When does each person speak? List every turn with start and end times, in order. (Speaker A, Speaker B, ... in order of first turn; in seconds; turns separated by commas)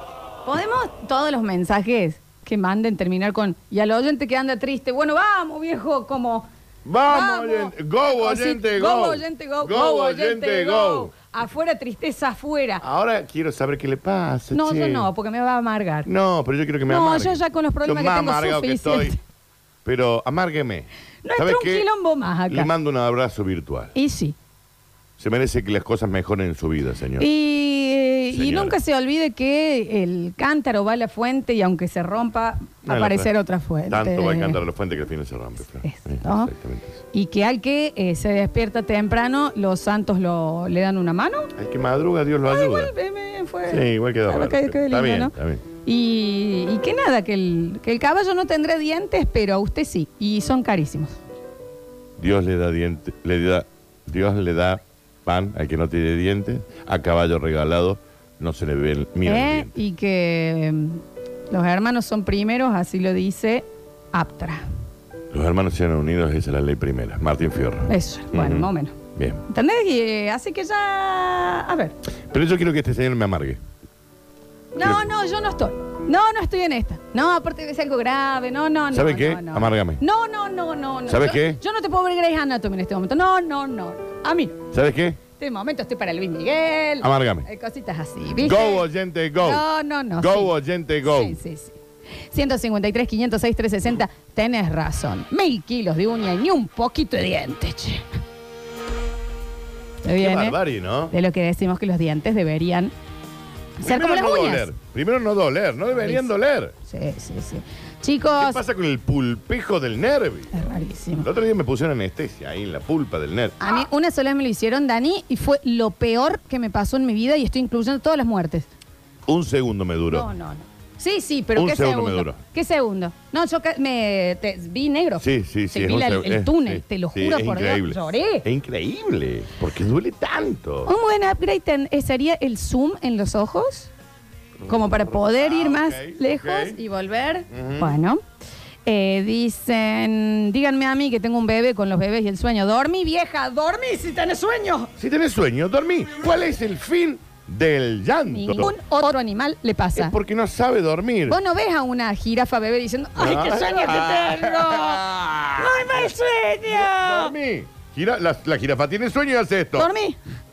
Speaker A: 0.4-6.5, Speaker B: 6.8-11.1, Speaker A: 7.1-12.8, Speaker B: 12.8-15.1, Speaker A: 14.5-16.1, Speaker B: 16.1-19.1, Speaker A: 16.9-19.2, Speaker B: 19.8-21.9, Speaker A: 21.2-22.7, Speaker B: 22.5-23.9, Speaker A: 23.9-24.3, Speaker B: 25.2-27.3, Speaker A: 27.2-34.6, Speaker B: 28.3-28.8, Speaker B: 32.9-33.3, Speaker B: 33.9-37.0, Speaker A: 35.8-36.5, Speaker A: 37.1-41.5, Speaker B: 41.5-42.9, Speaker A: 42.5-45.3, Speaker B: 43.7-45.6, Speaker A: 45.9-51.1, Speaker B: 52.2-59.8, Speaker A: 59.2-64.6, Speaker B: 65.3-69.4, Speaker A: 67.9-68.9, Speaker A: 69.5-71.9, Speaker B: 72.3-73.6, Speaker A: 74.7-84.6, Speaker B: 74.8-75.0, Speaker B: 78.9-80.0, Speaker B: 81.1-81.6, Speaker B: 84.7-85.2, Speaker A: 85.4-88.8, Speaker B: 87.0-87.5, Speaker B: 88.4-89.6, Speaker A: 89.4-91.8, Speaker B: 90.2-91.4, Speaker A: 92.3-98.0, Speaker A: 100.0-100.6, Speaker B: 100.2-101.1, Speaker A: 101.1-102.9, Speaker A: 103.8-104.7, Speaker B: 103.8-106.7, Speaker A: 106.9-108.6, Speaker B: 108.4-113.6, Speaker A: 110.5-111.3, Speaker A: 113.6-118.7, Speaker B: 119.2-120.3, Speaker A: 120.1-128.4, Speaker B: 121.5-122.4, Speaker B: 125.2-130.9, Speaker A: 130.8-133.9, Speaker B: 134.6-136.8, Speaker A: 134.7-138.2, Speaker B: 137.5-137.9, Speaker A: 138.8-144.9, Speaker B: 145.0-148.7, Speaker A: 148.3-150.1, Speaker B: 149.9-151.4, Speaker A: 151.3-155.0, Speaker B: 153.2-156.1, Speaker A: 155.6-157.3, Speaker B: 156.7-159.9, Speaker A: 159.7-160.2